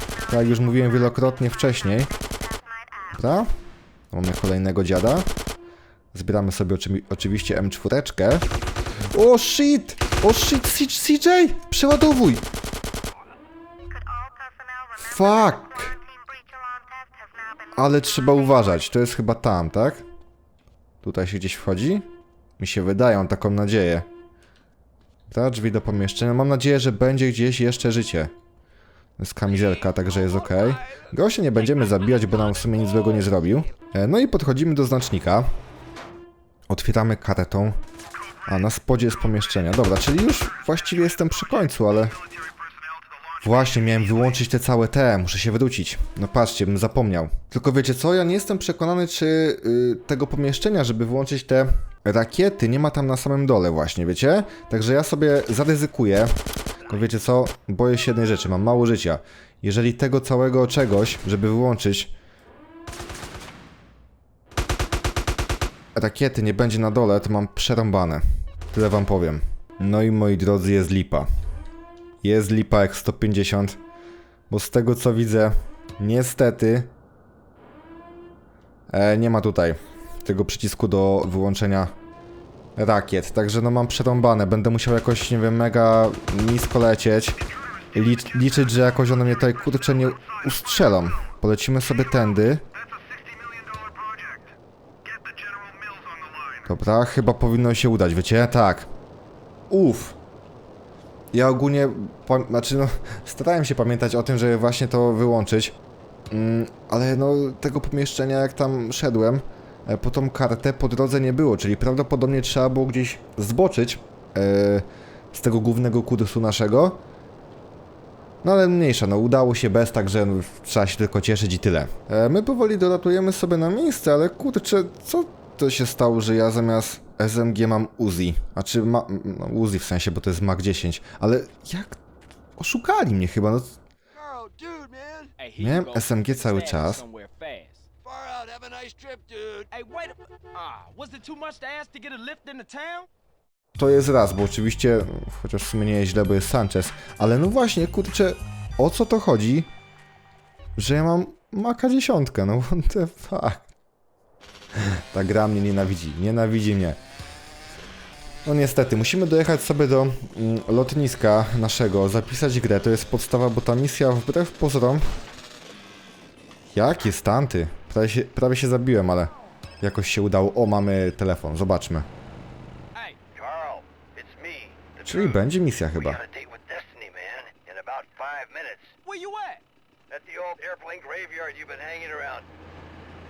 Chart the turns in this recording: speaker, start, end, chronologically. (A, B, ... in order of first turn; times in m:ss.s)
0:00.3-0:02.1 A
0:03.1-0:03.5 A
0:04.1-0:05.3 A
0:06.1-0:08.5 A
0:09.1-0:12.4 A
0:14.9-0:16.0 A
0:17.8-0:20.0 A
0:21.0-0:22.1 A
0:22.6-0:24.1 A
0:25.3-0:28.3 A
0:29.2-0:35.5 A
0:36.7-0:37.8 A
0:38.5-0:42.2 A
0:43.4-1:02.1 A
1:05.9-1:11.3 A
1:12.2-1:13.8 A
1:14.5-1:16.9 A
1:18.9-1:21.9 A
1:22.8-1:27.4 A
1:27.9-1:32.6 A
1:36.6-1:38.9 A
1:39.7-1:40.2 A
1:41.3-1:45.8 A
1:46.3-1:57.0 A
1:58.4-2:12.0 A
2:12.6-2:13.8 A
2:14.1-2:15.4 B
2:15.4-2:17.9 C
2:15.6-2:17.0 A
2:18.0-2:19.7 B
2:19.7-2:23.1 C
2:23.8-2:29.7 A
2:30.8-2:33.7 A
2:34.7-2:37.0 A
2:38.4-2:45.0 A
2:46.7-2:52.1 A
2:53.3-2:58.9 B
2:55.0-2:56.2 A
2:59.0-2:59.6 C
3:00.1-3:02.5 B